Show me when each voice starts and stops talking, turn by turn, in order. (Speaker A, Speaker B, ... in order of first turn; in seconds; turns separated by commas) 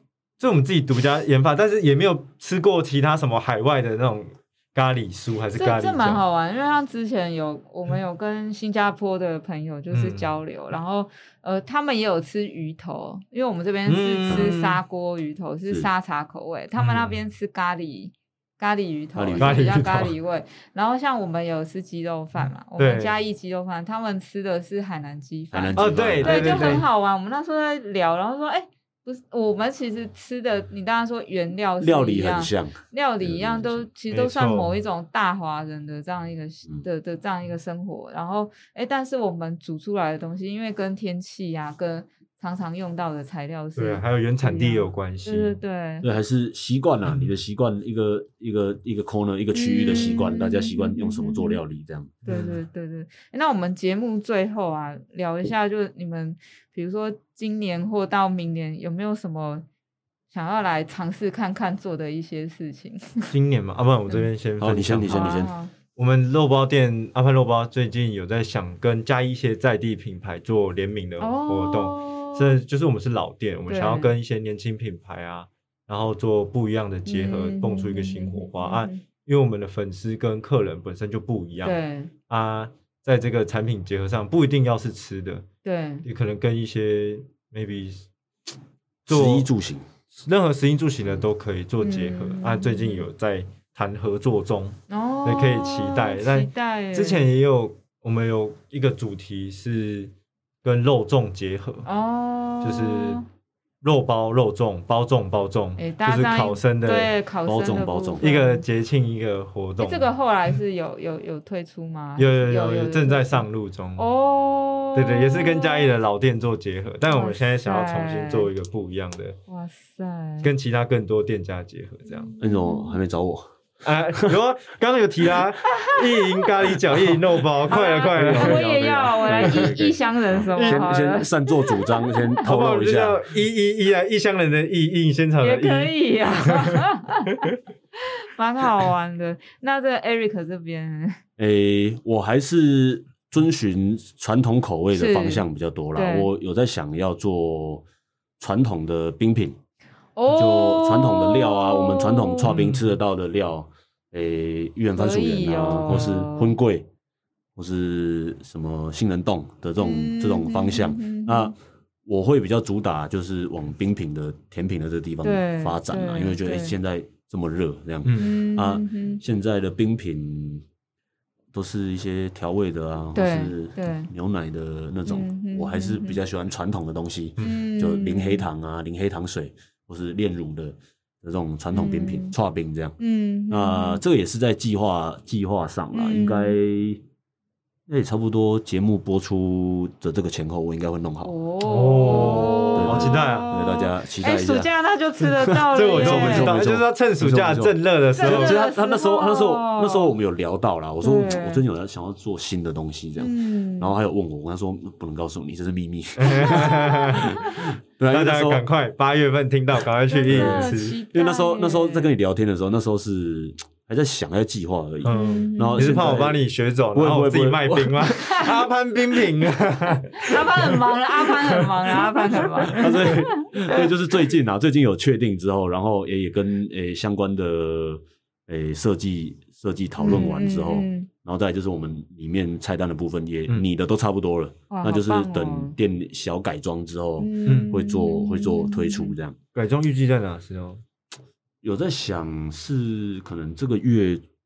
Speaker A: 0.4-6.2, Speaker B: 5.5-46.1, Speaker A: 9.9-10.3, Speaker A: 13.9-14.8, Speaker C: 14.3-14.6, Speaker A: 16.8-17.2, Speaker C: 19.2-19.8, Speaker A: 19.4-20.1, Speaker A: 22.8-23.2, Speaker C: 25.5-26.8, Speaker A: 25.8-26.9, Speaker C: 31.8-33.9, Speaker A: 34.1-34.8, Speaker A: 43.8-45.6, Speaker C: 46.0-52.2, Speaker B: 49.5-51.6, Speaker A: 52.2-52.6, Speaker B: 52.2-59.6, Speaker B: 60.3-63.3, Speaker A: 63.3-65.4, Speaker C: 64.6-65.5, Speaker B: 65.1-65.7, Speaker A: 66.0-81.8, Speaker B: 71.2-72.6, Speaker B: 73.7-74.1, Speaker B: 77.1-79.0, Speaker B: 81.6-82.1, Speaker A: 82.3-85.5, Speaker B: 85.6-86.1, Speaker A: 86.0-88.0, Speaker A: 89.1-89.5, Speaker C: 89.1-89.8, Speaker A: 90.2-100.1, Speaker B: 91.8-93.1, Speaker B: 94.9-97.3, Speaker A: 100.6-101.9, Speaker B: 101.8-103.3, Speaker A: 102.6-103.2, Speaker A: 103.8-107.1, Speaker B: 105.8-108.7, Speaker C: 107.5-108.3, Speaker A: 108.2-110.1, Speaker B: 109.8-113.5, Speaker A: 112.2-114.1, Speaker B: 114.0-115.9, Speaker A: 115.0-119.4, Speaker B: 117.1-118.5, Speaker B: 119.5-120.5, Speaker A: 120.4-122.3, Speaker B: 122.1-123.0, Speaker C: 122.4-123.5, Speaker A: 123.8-129.9, Speaker B: 127.7-132.4, Speaker C: 128.1-133.2, Speaker A: 130.6-131.0, Speaker A: 132.4-136.8, Speaker B: 135.4-141.2, Speaker C: 141.4-147.8, Speaker B: 144.9-146.3, Speaker C: 148.4-149.6, Speaker B: 150.2-152.6, Speaker C: 150.3-156.9, Speaker A: 152.5-152.9, Speaker B: 155.0-156.6, Speaker C: 157.6-170.6, Speaker B: 159.8-161.5, Speaker B: 165.2-166.7, Speaker A: 168.1-168.3, Speaker B: 168.2-169.2, Speaker C: 171.5-183.0, Speaker B: 173.2-174.1, Speaker B: 175.1-176.2, Speaker B: 177.4-178.5, Speaker B: 181.7-182.3, Speaker B: 183.0-184.0, Speaker C: 183.5-187.0, Speaker B: 185.9-186.6, Speaker C: 187.9-191.3, Speaker B: 191.2-196.6, Speaker A: 191.6-193.5, Speaker C: 192.0-208.6, Speaker A: 195.7-198.6, Speaker B: 198.1-200.2, Speaker B: 201.0-201.6, Speaker B: 203.2-204.0, Speaker A: 206.2-207.5, Speaker B: 206.2-207.6, Speaker A: 208.1-211.0, Speaker B: 210.1-212.1, Speaker C: 210.3-216.4, Speaker A: 215.0-223.1, Speaker B: 215.1-216.1, Speaker C: 216.9-218.2, Speaker B: 218.2-218.5, Speaker B: 220.2-223.8, Speaker C: 222.7-239.4, Speaker B: 230.0-231.1, Speaker B: 234.7-235.8, Speaker B: 237.2-239.1, Speaker A: 237.5-237.8, Speaker A: 239.5-240.8, Speaker C: 241.6-244.2